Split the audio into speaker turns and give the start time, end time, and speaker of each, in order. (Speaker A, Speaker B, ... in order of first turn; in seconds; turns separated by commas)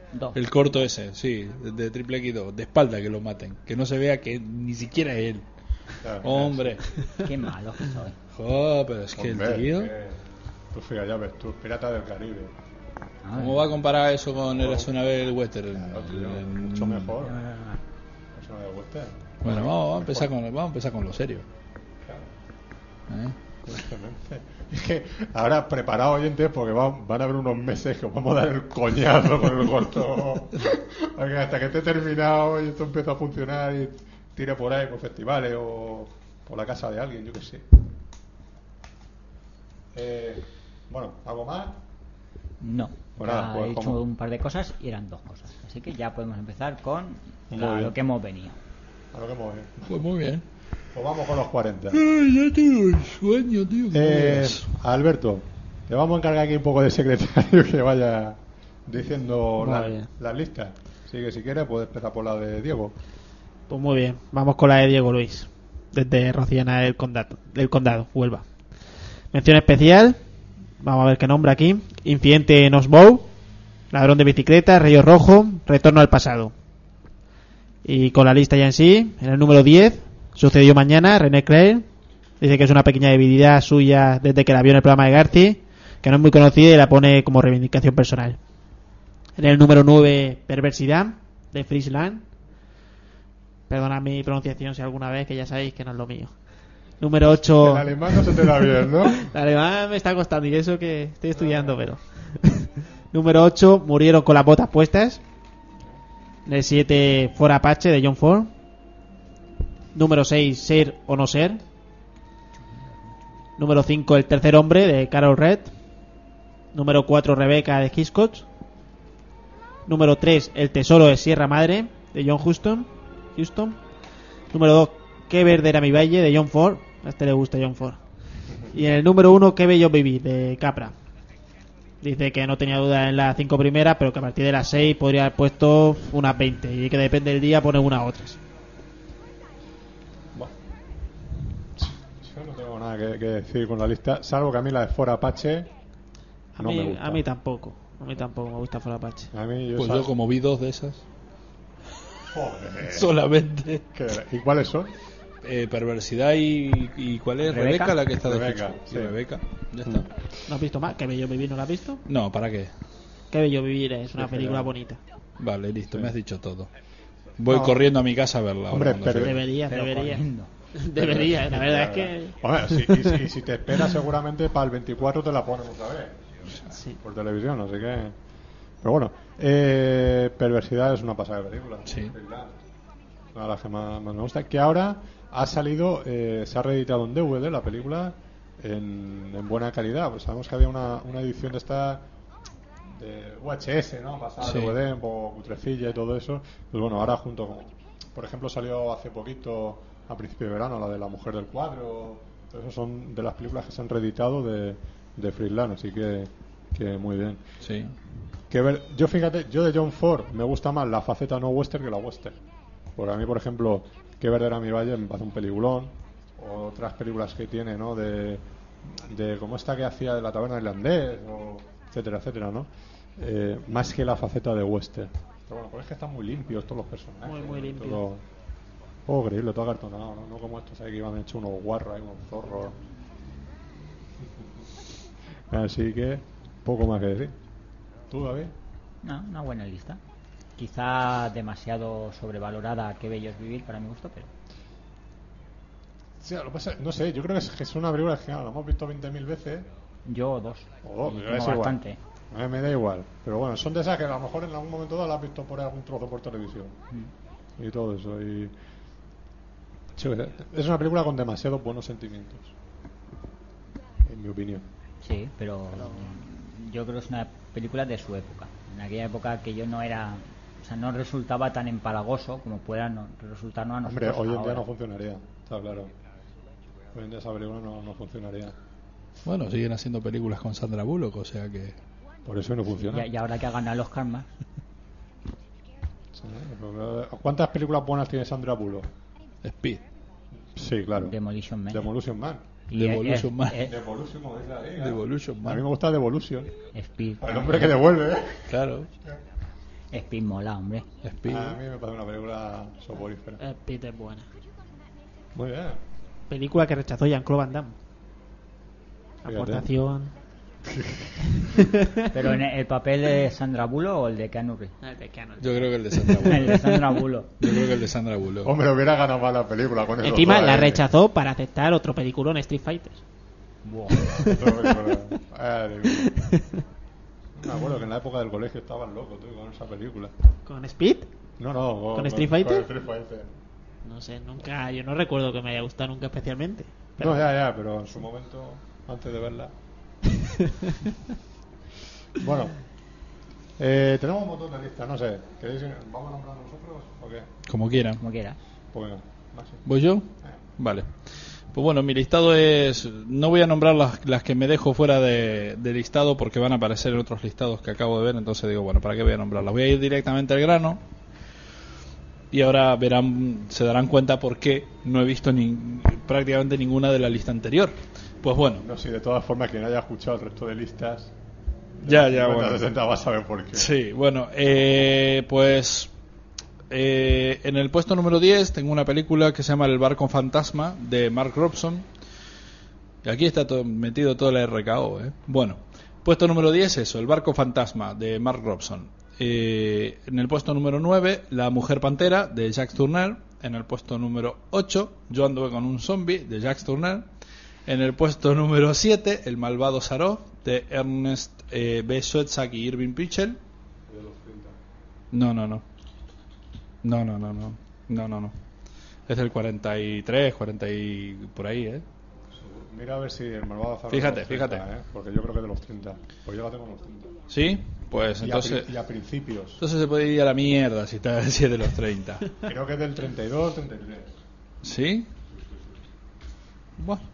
Speaker A: 0.1-0.4, Speaker B: 0.3-5.5, Speaker C: 6.0-6.8, Speaker B: 6.2-6.8, Speaker A: 7.2-8.2, Speaker B: 8.3-9.9, Speaker C: 9.2-10.2, Speaker C: 10.7-12.5, Speaker A: 13.2-13.7, Speaker B: 13.4-17.1, Speaker C: 14.6-14.9, Speaker C: 15.7-17.4, Speaker A: 17.2-17.8, Speaker C: 18.3-20.3, Speaker B: 19.4-21.5, Speaker B: 23.1-23.4, Speaker C: 23.6-37.7, Speaker C: 39.9-41.8, Speaker A: 42.6-48.6, Speaker C: 43.2-44.0, Speaker C: 47.5-48.0, Speaker C: 49.1-50.1, Speaker B: 49.9-50.4, Speaker C: 50.9-52.0, Speaker B: 51.9-54.7, Speaker C: 53.9-63.0, Speaker D: 59.6-60.1, Speaker D: 63.7-70.2, Speaker D: 70.8-73.3, Speaker D: 73.9-76.5, Speaker D: 77.8-81.9, Speaker D: 82.4-88.4, Speaker D: 89.4-92.3, Speaker D: 93.7-105.2, Speaker C: 97.3-99.3, Speaker C: 101.3-101.8, Speaker D: 106.5-108.5, Speaker D: 109.9-111.6, Speaker D: 113.6-115.7, Speaker D: 116.7-118.5, Speaker D: 119.9-123.8, Speaker D: 124.5-128.0, Speaker D: 128.7-130.9, Speaker D: 132.0-138.4, Speaker C: 141.8-145.7, Speaker C: 146.6-147.2, Speaker D: 146.6-149.3, Speaker C: 149.3-150.1, Speaker B: 149.8-151.0, Speaker C: 152.3-153.2, Speaker B: 152.9-153.8, Speaker C: 153.9-154.9, Speaker B: 155.4-160.1, Speaker A: 157.4-157.9, Speaker C: 158.2-159.2, Speaker C: 159.8-160.5, Speaker D: 160.5-162.0, Speaker B: 162.1-162.7, Speaker D: 163.3-165.0, Speaker C: 164.1-164.8, Speaker B: 165.4-166.7, Speaker C: 165.9-166.2, Speaker B: 167.4-169.4, Speaker C: 167.5-167.8, Speaker C: 168.7-169.5, Speaker D: 169.2-170.2, Speaker A: 169.7-170.5, Speaker D: 170.8-173.1, Speaker C: 170.9-176.2, Speaker D: 176.7-177.0, Speaker C: 177.0-178.2, Speaker C: 178.8-182.6, Speaker B: 181.9-182.2, Speaker C: 183.3-192.1, Speaker C: 192.8-207.4, Speaker B: 194.4-194.8, Speaker B: 207.6-208.0, Speaker C: 208.5-212.4, Speaker C: 212.9-228.2, Speaker D: 227.2-228.0, Speaker C: 229.1-232.8, Speaker C: 234.2-234.6, Speaker C: 235.5-237.3, Speaker C: 238.1-238.6, Speaker A: 239.0-240.0, Speaker A: 240.6-244.3, Speaker C: 246.2-249.7, Speaker A: 250.1-252.0, Speaker C: 250.8-256.8, Speaker C: 257.6-258.5, Speaker C: 260.0-262.5, Speaker C: 264.1-264.7, Speaker A: 265.0-274.7, Speaker D: 265.8-266.1, Speaker C: 273.9-275.9, Speaker C: 276.9-278.6, Speaker B: 279.2-281.8, Speaker C: 282.2-283.1, Speaker A: 282.9-284.3, Speaker C: 286.1-288.9, Speaker B: 289.4-289.8, Speaker C: 290.4-291.2, Speaker A: 290.9-291.9, Speaker C: 291.7-292.4, Speaker A: 292.7-293.8, Speaker B: 292.7-293.6, Speaker C: 293.6-296.5, Speaker B: 294.8-295.6, Speaker A: 296.7-297.8, Speaker C: 297.2-298.5, Speaker B: 298.5-298.9, Speaker A: 299.9-300.9, Speaker B: 301.0-301.6, Speaker C: 301.2-303.4, Speaker D: 303.4-304.3, Speaker C: 305.3-305.8, Speaker D: 306.3-307.7, Speaker C: 309.2-309.7, Speaker D: 309.2-310.1, Speaker C: 310.6-311.6, Speaker D: 311.4-311.9, Speaker A: 312.1-314.7, Speaker D: 314.8-317.0, Speaker B: 315.4-316.6, Speaker A: 316.2-317.3, Speaker B: 317.4-318.5, Speaker C: 318.4-320.8, Speaker D: 320.0-323.0, Speaker A: 323.6-324.0, Speaker C: 323.9-326.2, Speaker D: 324.0-324.9, Speaker D: 326.0-326.3, Speaker C: 327.4-330.1, Speaker D: 330.5-331.1, Speaker C: 331.4-333.3, Speaker D: 331.9-332.7, Speaker D: 333.9-337.3, Speaker C: 337.0-339.5, Speaker C: 342.1-342.6, Speaker C: 343.6-347.3, Speaker B: 347.5-348.0, Speaker A: 348.0-348.4, Speaker C: 348.7-349.7, Speaker B: 349.7-360.8, Speaker B: 362.3-368.6, Speaker C: 368.6-371.1, Speaker C: 371.8-373.7, Speaker B: 371.8-372.6, Speaker B: 373.6-375.9, Speaker B: 376.7-381.9, Speaker B: 383.0-397.1, Speaker B: 397.7-403.4, Speaker C: 403.9-404.6, Speaker B: 405.1-405.6, Speaker B: 406.8-408.4, Speaker B: 409.1-411.8, Speaker C: 412.3-417.2, Speaker B: 413.9-414.6, Speaker B: 417.3-418.7, Speaker C: 418.2-419.6, Speaker B: 419.6-422.3, Speaker C: 422.4-424.1, Speaker B: 424.6-425.1, Speaker C: 425.4-425.7, Speaker B: 426.8-427.0